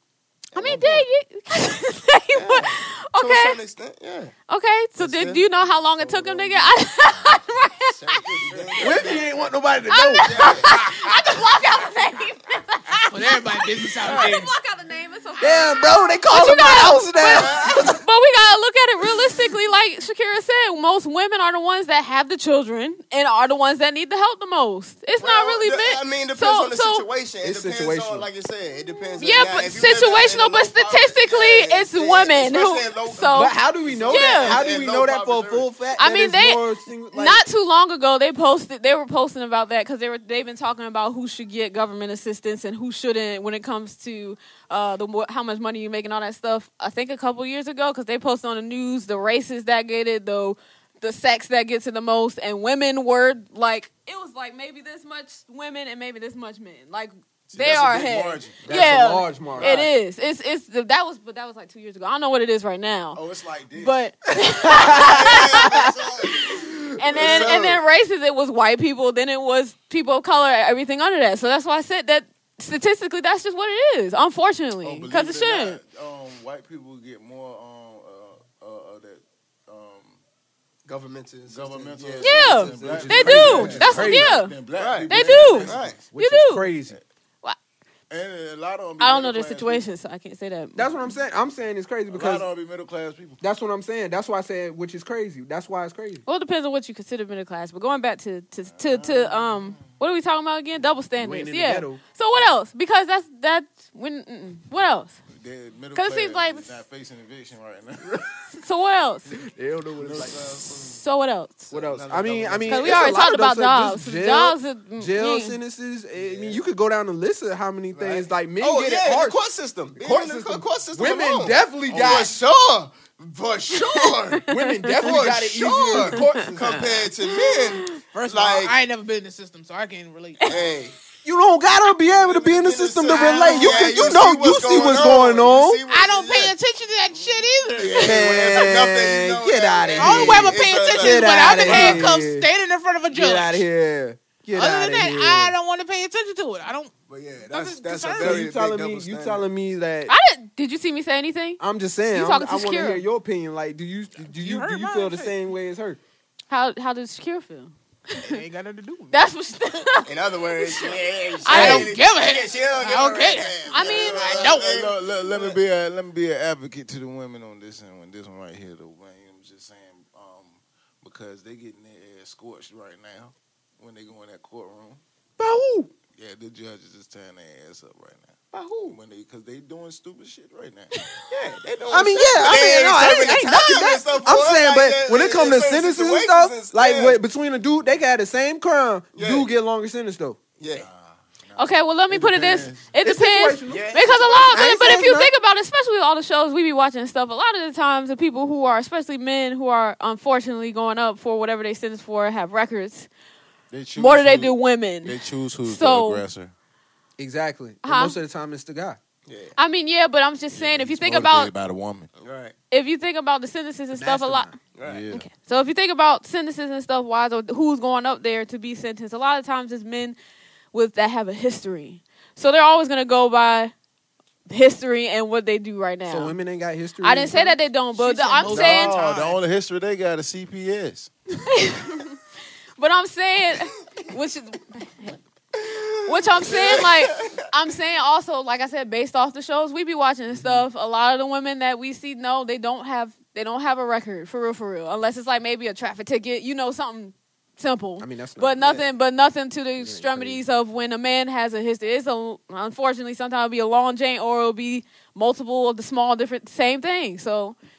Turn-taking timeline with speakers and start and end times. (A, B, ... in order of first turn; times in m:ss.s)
0:00.5-0:01.0 A
0:00.5-0:03.6 B
0:02.3-0:04.3 A
0:04.5-0:08.2 B
0:05.0-0:05.4 A
0:05.8-0:06.7 C
0:07.9-0:09.3 A
0:08.2-0:08.9 C
0:08.8-0:10.6 D
0:09.9-0:27.1 B
0:10.2-0:10.7 A
0:13.1-0:14.5 E
0:14.0-0:14.3 A
0:15.4-0:18.0 D
0:17.3-0:17.8 A
0:25.2-0:35.7 A
0:27.4-0:28.3 D
0:29.2-0:33.6 B
0:33.3-0:37.4 D
0:34.1-0:34.6 B
0:36.0-1:03.2 B
0:57.5-0:59.9 C
0:58.6-0:59.9 D
1:03.1-1:04.1 C
1:03.7-1:05.9 B
1:04.7-1:06.6 C
1:04.8-1:05.9 D
1:06.5-1:07.3 D
1:07.0-1:15.8 B
1:07.1-1:07.8 A
1:07.1-1:07.5 C
1:14.8-1:20.2 C
1:20.8-1:24.0 A
1:21.5-1:26.0 C
1:22.2-1:24.5 B
1:22.6-1:24.4 D
1:24.7-1:26.0 A
1:25.1-1:27.0 D
1:25.1-1:26.6 B
1:28.1-1:29.9 C
1:29.0-1:31.1 B
1:30.8-1:32.5 D
1:32.1-1:33.4 C
1:33.4-1:36.2 D
1:36.2-1:45.2 B
1:38.7-1:39.9 C
1:41.2-1:42.0 D
1:45.3-1:48.1 C
1:45.9-1:46.7 B
1:48.5-1:49.3 B
1:49.3-1:50.4 D
1:50.0-1:50.9 A
1:50.0-1:51.0 C
1:50.8-1:51.7 B
1:51.7-1:53.2 A
1:51.7-1:59.4 D
1:52.6-1:55.6 B
1:56.1-1:56.6 A
1:57.9-2:08.7 A
1:59.9-2:02.3 D
2:03.8-2:04.9 B
2:04.5-2:06.8 D
2:06.1-2:06.7 B
2:07.2-2:07.9 B
2:08.0-2:10.5 E
2:10.5-2:10.9 A
2:11.2-2:15.8 D
2:12.1-2:16.5 A
2:13.1-2:13.9 E
2:15.9-2:18.2 E
2:17.1-2:22.1 A
2:18.0-2:22.5 D
2:20.0-2:23.6 E
2:23.1-2:25.5 D
2:24.5-2:28.5 E
2:27.1-2:29.4 A
2:28.2-2:30.1 D
2:30.1-2:33.0 B
2:31.6-2:36.0 D
2:34.2-2:35.4 E
2:36.5-2:38.4 B
2:38.2-2:39.2 E
2:39.1-2:42.0 B
2:40.0-2:45.6 A
2:41.5-2:44.8 E
2:43.7-2:44.4 B
2:43.9-2:55.0 C
2:55.4-2:55.9 D
2:56.1-2:58.3 C
2:58.5-2:59.0 A
2:58.9-3:00.9 C
3:01.3-3:07.2 A
3:01.9-3:10.4 D
3:09.1-3:09.5 A
3:10.6-3:10.9 A
3:10.7-3:12.9 C
3:11.6-3:23.1 B
3:13.0-3:14.0 D
3:13.7-3:14.7 A
3:14.5-3:15.3 D
3:23.7-3:26.5 C
3:23.9-3:26.2 B
3:27.2-3:29.0 D
3:27.8-3:28.2 B
3:29.3-3:29.6 A
3:29.6-3:31.5 B
3:30.5-3:32.1 C
3:32.2-3:32.5 A
3:32.7-3:34.5 B
3:33.9-3:34.5 D
3:34.7-3:35.0 A
3:34.8-3:35.3 C
3:35.1-3:40.2 B
3:40.7-3:43.7 B
3:44.5-3:46.4 B
3:46.1-3:47.6 D
3:47.0-3:49.0 B
3:47.9-3:49.4 E
3:48.5-3:51.1 C
3:51.5-3:52.2 B
3:52.8-3:55.2 B
3:55.7-3:57.4 A
3:56.0-4:17.6 B
4:00.3-4:00.6 D
4:08.0-4:08.6 D
4:08.6-4:08.8 A
4:09.8-4:10.4 D